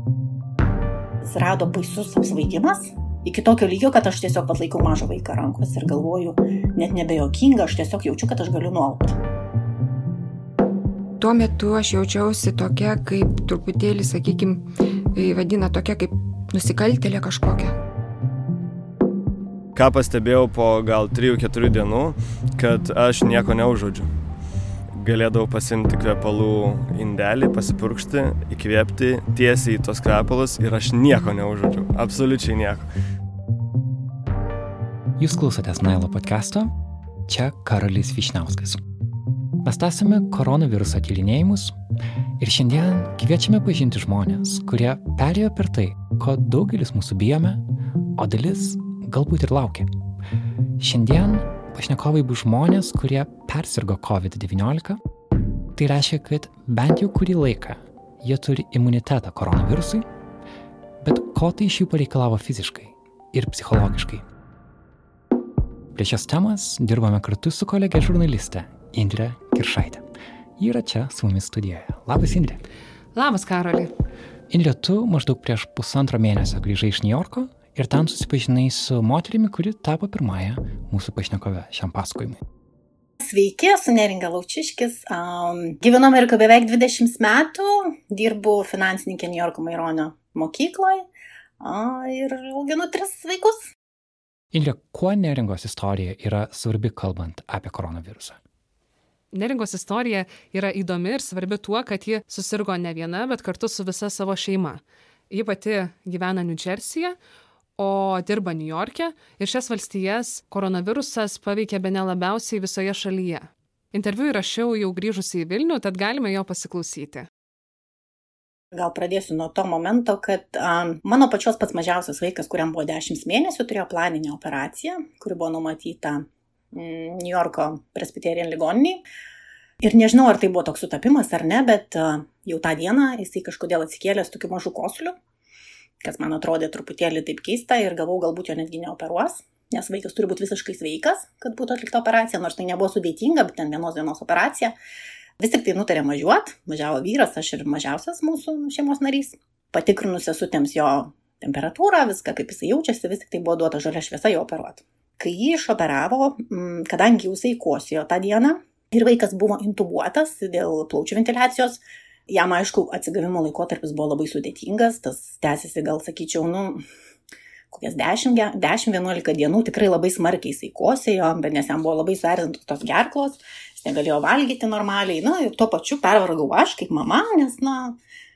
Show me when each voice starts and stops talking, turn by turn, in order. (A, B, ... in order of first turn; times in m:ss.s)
0:01.2-0:09.2 A
0:11.2-0:17.8 B
0:19.8-0:24.1 C
0:25.0-0:32.9 C
0:35.2-0:36.7 D
0:37.3-0:38.8 D
0:39.6-0:41.8 D
0:42.4-0:47.6 D
0:48.2-0:49.9 D
0:50.8-0:55.0 D
0:55.8-1:00.1 D
1:01.0-1:04.2 D
1:06.0-1:10.0 D
1:10.6-1:12.6 D
1:13.2-1:13.9 E
1:14.5-1:22.4 D
1:23.2-1:31.1 A
1:31.6-1:33.7 A
1:34.5-1:38.4 D
1:39.3-1:47.2 E
1:47.8-1:57.3 E
1:58.7-2:09.0 A
2:09.8-2:15.2 A
2:16.0-2:24.8 A
2:25.4-2:46.8 A
2:47.7-2:58.0 A